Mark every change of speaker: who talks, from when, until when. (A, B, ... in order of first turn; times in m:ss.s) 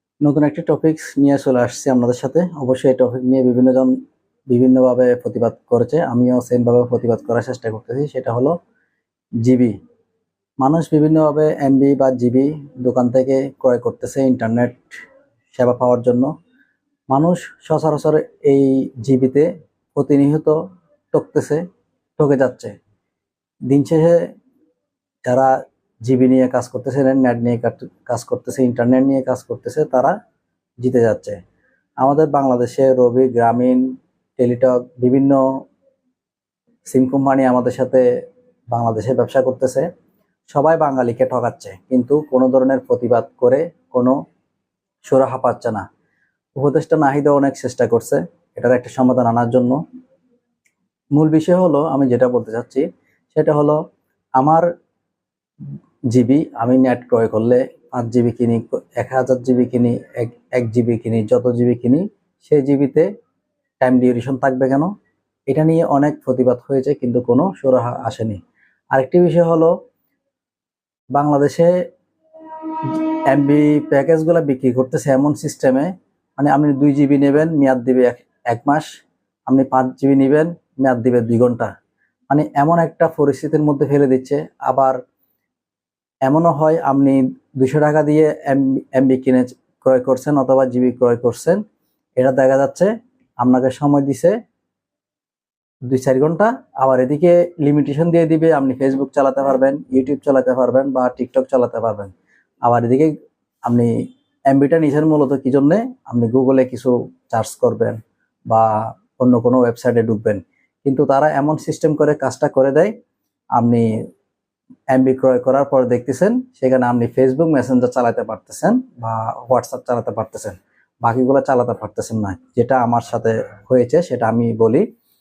0:00.2-0:03.9 A
0:04.5-0:08.5 A
0:09.4-0:09.7 A
0:10.6-0:14.9 A
0:15.5-0:16.3 A
0:17.1-0:20.6 A
0:21.1-0:21.6 A
0:22.2-0:22.7 A
0:23.7-0:24.2 A
0:25.2-0:30.1 A
0:30.8-0:31.4 A
0:32.0-0:33.8 A
0:34.4-0:35.4 A
0:36.9-0:38.0 A
0:38.7-0:39.8 A
0:40.5-0:44.2 A
0:45.0-0:45.8 A
0:46.6-0:49.8 A
0:51.1-0:53.8 A
0:54.4-0:54.6 A
0:56.1-1:03.1 A
1:03.8-1:04.9 A
1:05.5-1:08.4 A
1:08.9-1:09.7 A
1:11.1-1:11.7 A
1:12.8-1:18.9 A
1:19.5-1:21.7 A
1:22.3-1:25.0 A
1:26.2-1:31.6 A
1:32.2-1:34.3 A
1:35.9-1:42.1 A
1:42.6-1:43.1 A
1:43.6-1:43.9 A
1:44.5-1:52.9 A
1:53.6-1:53.8 A
1:54.9-2:04.8 A